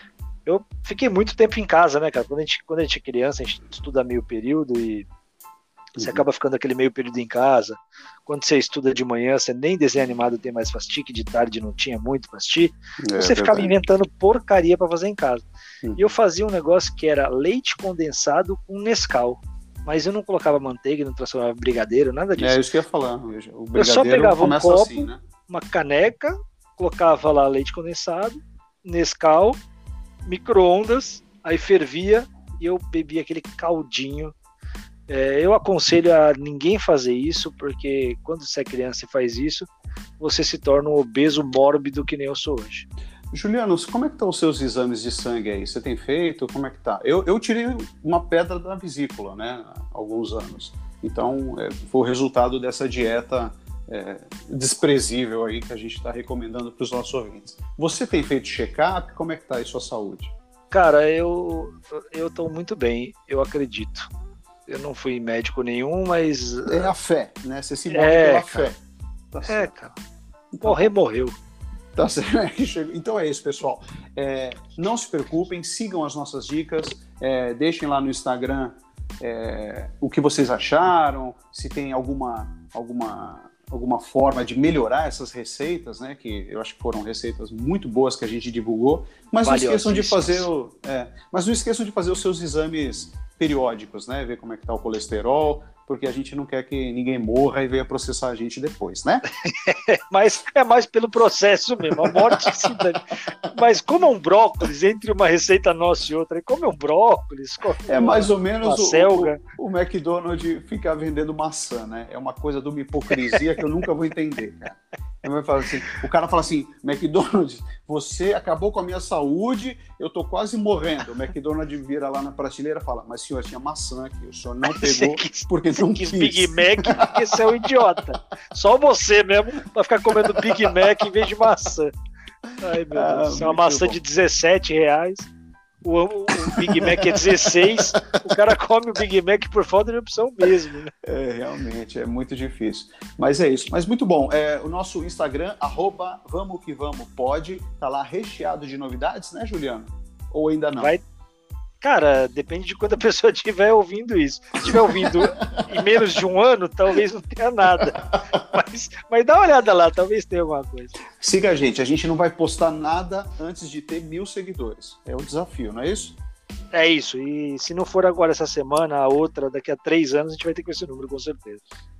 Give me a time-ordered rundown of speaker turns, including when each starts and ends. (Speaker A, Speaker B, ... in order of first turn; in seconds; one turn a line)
Speaker A: 0.5-5.1
Speaker B: 6.0-6.2
Speaker A: 6.0-15.4
Speaker B: 13.0-13.7
Speaker A: 15.9-22.6
Speaker B: 22.4-25.2
Speaker A: 23.8-29.6
Speaker A: 30.2-34.3
Speaker A: 35.1-39.7
Speaker A: 40.2-42.9
Speaker B: 43.3-60.3
Speaker A: 60.7-64.1
Speaker A: 64.7-66.9
Speaker B: 66.7-68.8
Speaker A: 67.9-68.7
Speaker B: 69.3-69.7
Speaker A: 69.5-69.9
Speaker B: 70.5-70.9
Speaker A: 70.6-71.3
Speaker B: 71.9-99.2
Speaker A: 89.4-90.5
Speaker A: 99.4-109.4
Speaker B: 101.9-102.8
Speaker B: 107.9-127.8
Speaker A: 124.6-131.9
Speaker B: 130.1-131.2
Speaker A: 132.6-135.3
Speaker B: 132.7-134.0
Speaker A: 135.8-140.9
Speaker B: 136.4-138.4
Speaker B: 141.0-150.9
Speaker A: 150.8-151.0
Speaker A: 151.8-160.9
Speaker B: 154.6-156.0
Speaker B: 157.9-158.2
Speaker B: 161.0-166.2
Speaker A: 166.7-171.6